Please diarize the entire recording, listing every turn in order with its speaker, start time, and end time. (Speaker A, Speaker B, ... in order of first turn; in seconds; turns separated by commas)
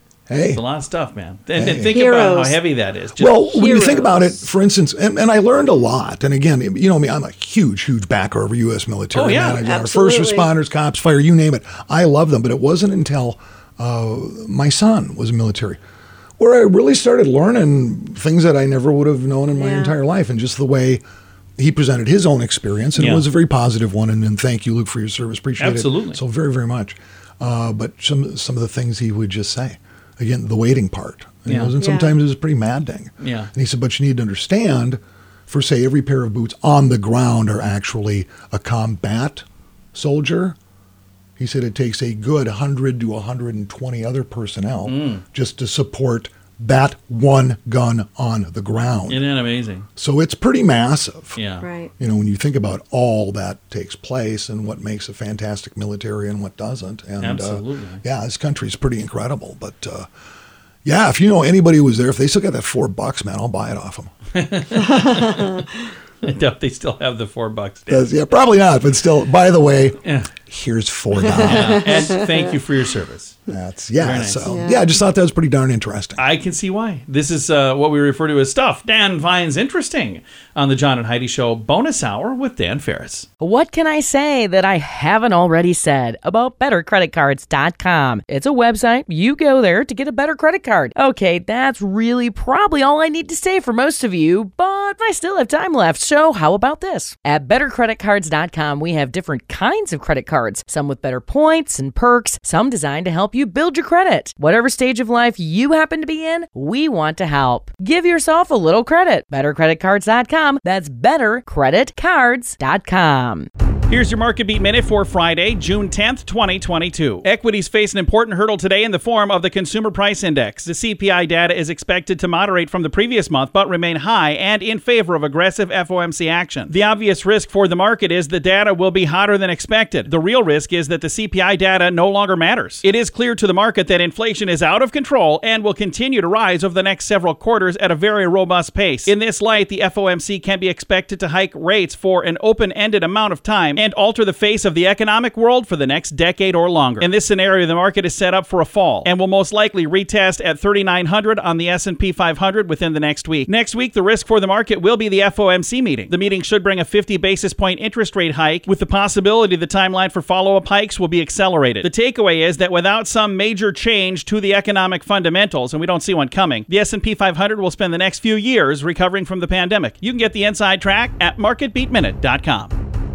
Speaker A: 0.3-0.6, Speaker B: 0.5-3.9, Speaker A: 1.5-1.9, Speaker C: 1.9-2.6, Speaker A: 3.2-15.8, Speaker C: 3.7-4.4, Speaker B: 9.1-9.6, Speaker C: 9.6-10.5, Speaker A: 16.4-21.0, Speaker C: 19.5-19.9, Speaker A: 21.6-40.5, Speaker B: 23.0-23.2, Speaker B: 25.6-26.2, Speaker B: 31.5-31.7, Speaker C: 31.8-32.1, Speaker B: 33.2-33.5, Speaker A: 41.4-49.2, Speaker B: 44.9-45.2, Speaker B: 49.1-49.9, Speaker A: 50.0-51.4, Speaker B: 51.4-51.6, Speaker C: 51.6-51.9, Speaker A: 52.0-60.1, Speaker B: 57.2-58.0, Speaker A: 60.8-64.1, Speaker B: 64.3-65.7, Speaker B: 66.2-68.1, Speaker A: 67.9-72.0, Speaker B: 70.0-70.3, Speaker B: 71.3-73.4, Speaker A: 73.5-76.2, Speaker B: 74.0-74.5, Speaker C: 74.5-74.8, Speaker B: 76.2-83.3, Speaker D: 83.4-113.5, Speaker B: 113.9-172.8